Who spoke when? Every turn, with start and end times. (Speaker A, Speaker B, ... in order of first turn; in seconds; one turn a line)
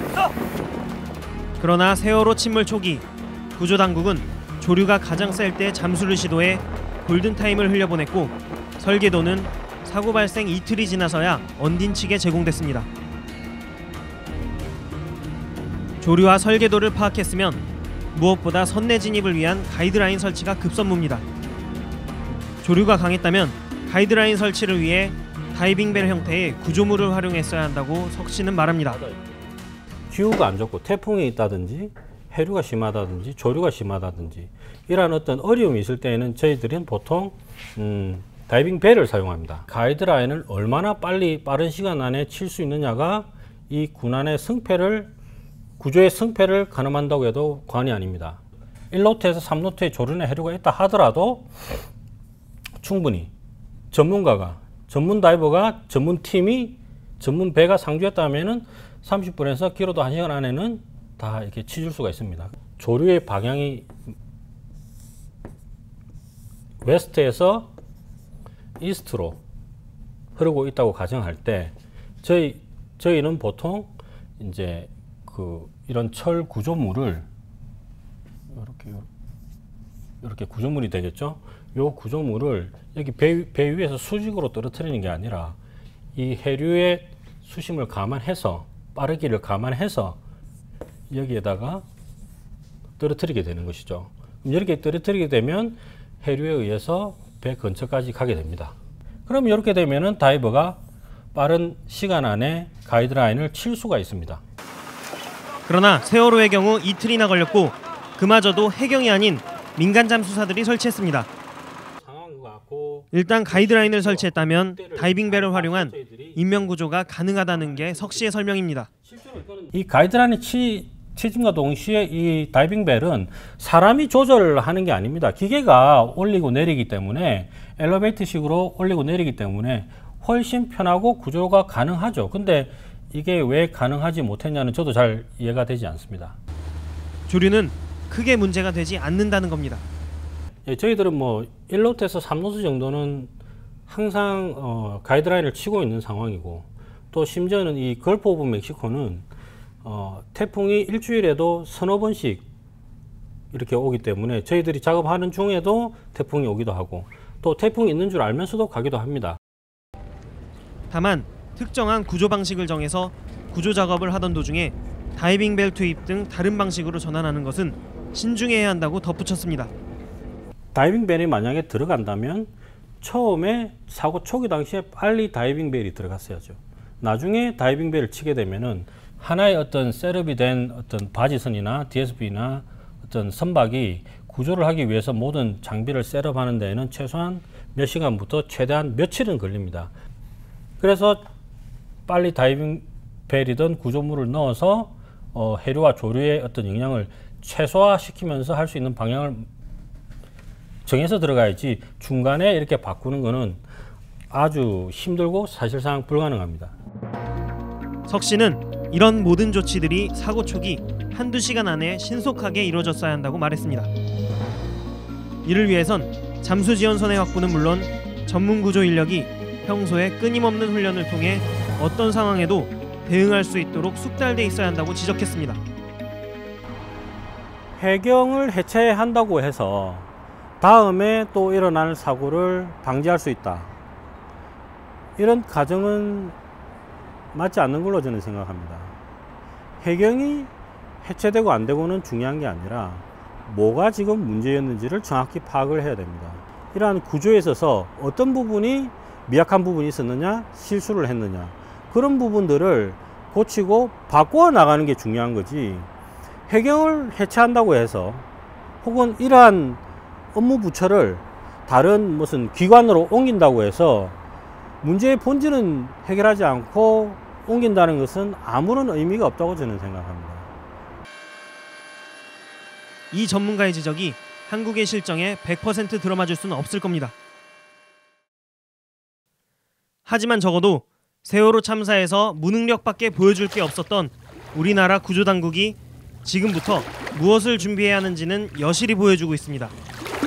Speaker A: 1.6-12.9
Speaker A: 16.0-21.2
Speaker A: 22.6-29.0
Speaker B: 28.9-29.3
Speaker B: 30.1-45.1
Speaker B: 45.8-51.8
Speaker B: 52.8-53.3
Speaker B: 53.9-63.9
Speaker B: 66.8-67.7
Speaker B: 68.8-69.4
Speaker B: 70.3-77.2
Speaker B: 78.5-79.1
Speaker B: 80.2-85.6
Speaker B: 86.1-90.2
Speaker B: 91.1-91.8
Speaker B: 93.0-98.7
Speaker B: 99.3-100.8
Speaker B: 101.3-104.4
Speaker A: 105.7-111.3
Speaker B: 112.0-116.7
Speaker A: 113.1-118.9
Speaker B: 117.5-118.2
Speaker B: 119.0-136.4
Speaker A: 137.3-139.8
Speaker B: 140.7-143.3
Speaker B: 143.9-149.2
Speaker B: 149.8-152.4
Speaker B: 153.5-159.4
Speaker A: 160.9-169.7
Speaker B: 170.7-172.5
Speaker B: 173.0-189.9
Speaker B: 190.8-191.2
Speaker B: 192.1-199.5
Speaker B: 200.8-203.6
Speaker B: 204.3-206.7
Speaker A: 208.1-213.9
Speaker A: 215.4-225.6
Speaker B: 227.8-230.1
Speaker B: 230.6-233.7
Speaker B: 235.2-236.3
Speaker B: 237.3-238.9
Speaker B: 239.8-240.5
Speaker B: 241.0-255.9
Speaker B: 256.5-258.2
Speaker B: 258.8-259.8
Speaker B: 260.3-264.2
Speaker B: 264.8-270.5
Speaker A: 273.1-277.1
Speaker A: 280.0-289.7